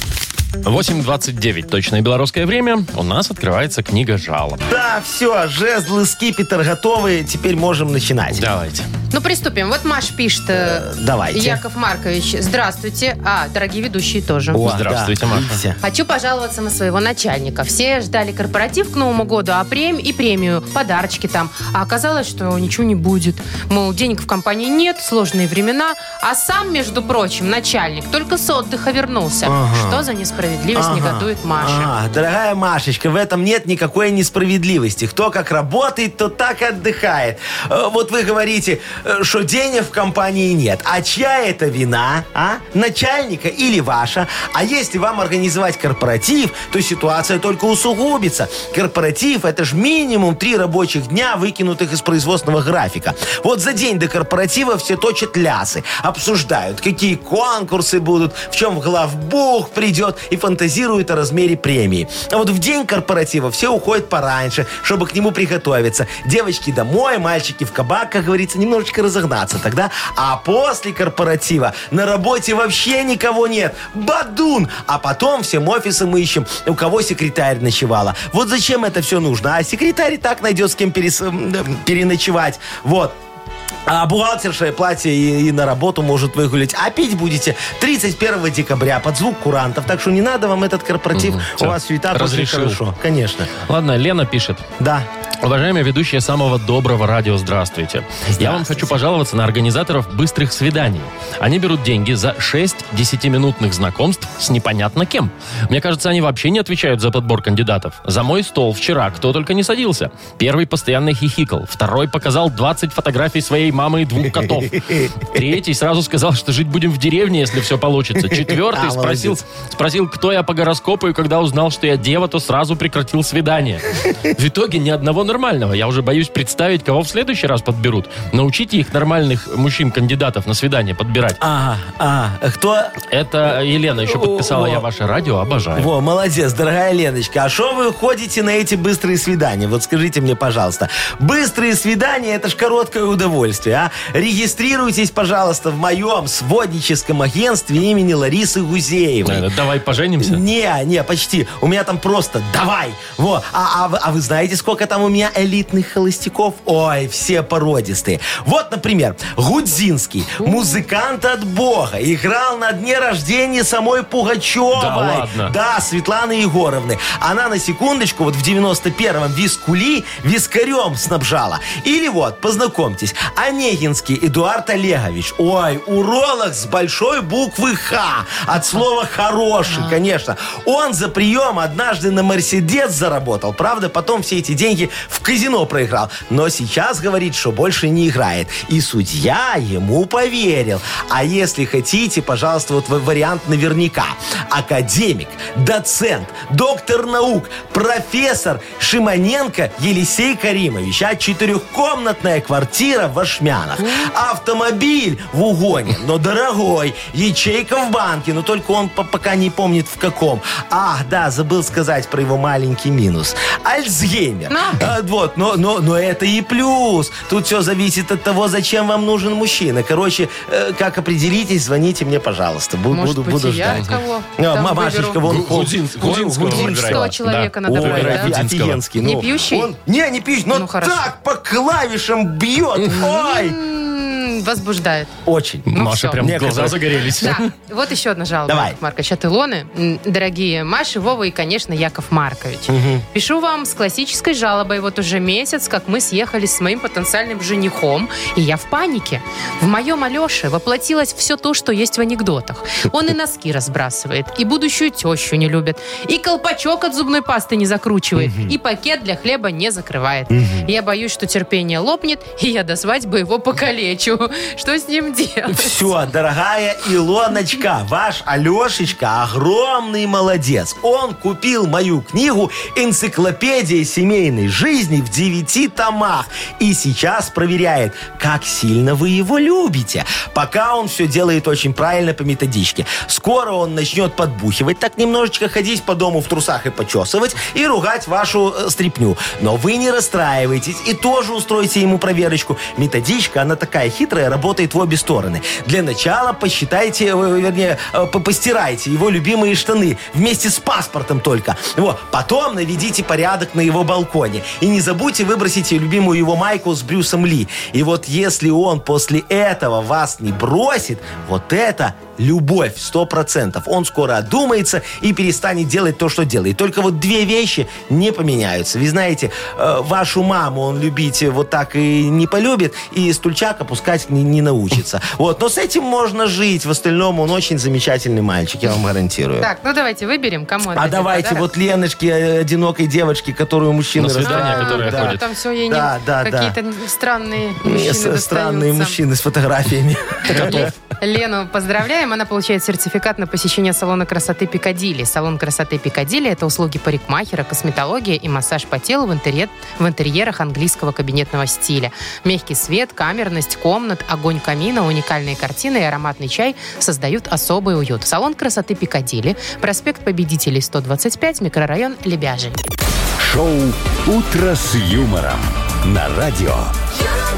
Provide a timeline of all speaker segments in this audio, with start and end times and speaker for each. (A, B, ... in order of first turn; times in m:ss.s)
0:00.6-0:04.6 A
0:04.7-0:08.4 B
0:08.3-0:08.9 A
0:09.1-0:14.6 C
0:10.5-0:11.6 B
0:14.5-0:15.8 B
0:14.6-0:15.6 A
0:15.8-0:31.9 C
0:29.4-0:30.0 B
0:30.7-1:23.2 B
1:23.9-1:33.5 B
1:31.1-1:32.8 A
1:33.6-1:34.6 A
1:34.8-1:35.1 B
1:35.4-2:11.4 A
1:38.3-1:39.0 B
1:54.2-1:55.3 B
1:58.3-1:59.4 B
2:11.4-2:13.0 B
2:13.1-2:15.9 A
2:14.0-2:14.8 B
2:15.7-2:29.5 B
2:29.2-2:30.4 A
2:30.2-3:43.8 B
2:44.7-2:45.5 A
3:34.5-3:34.9 C
3:42.9-3:45.2 C
3:43.7-3:44.0 A
3:44.4-3:47.1 B
3:45.2-3:48.8 A
3:46.4-3:48.3 C
3:47.6-3:53.6 B
3:49.0-3:49.7 C
3:50.5-3:51.1 C
3:52.9-3:55.1 C
3:55.2-3:57.0 B
3:55.7-3:57.5 A
3:55.7-3:56.2 C
3:57.2-4:25.9 C
3:58.5-3:58.8 B
4:02.7-4:03.0 B
4:18.2-4:18.6 B
4:20.3-4:20.7 B
4:25.5-5:29.5 B
5:29.4-5:31.5 C
5:30.7-5:36.6 B
5:34.0-5:35.2 A
5:34.2-5:39.0 C
5:37.6-5:40.7 B
5:40.3-5:40.7 A
5:40.3-6:02.6 C
6:03.2-6:06.7 D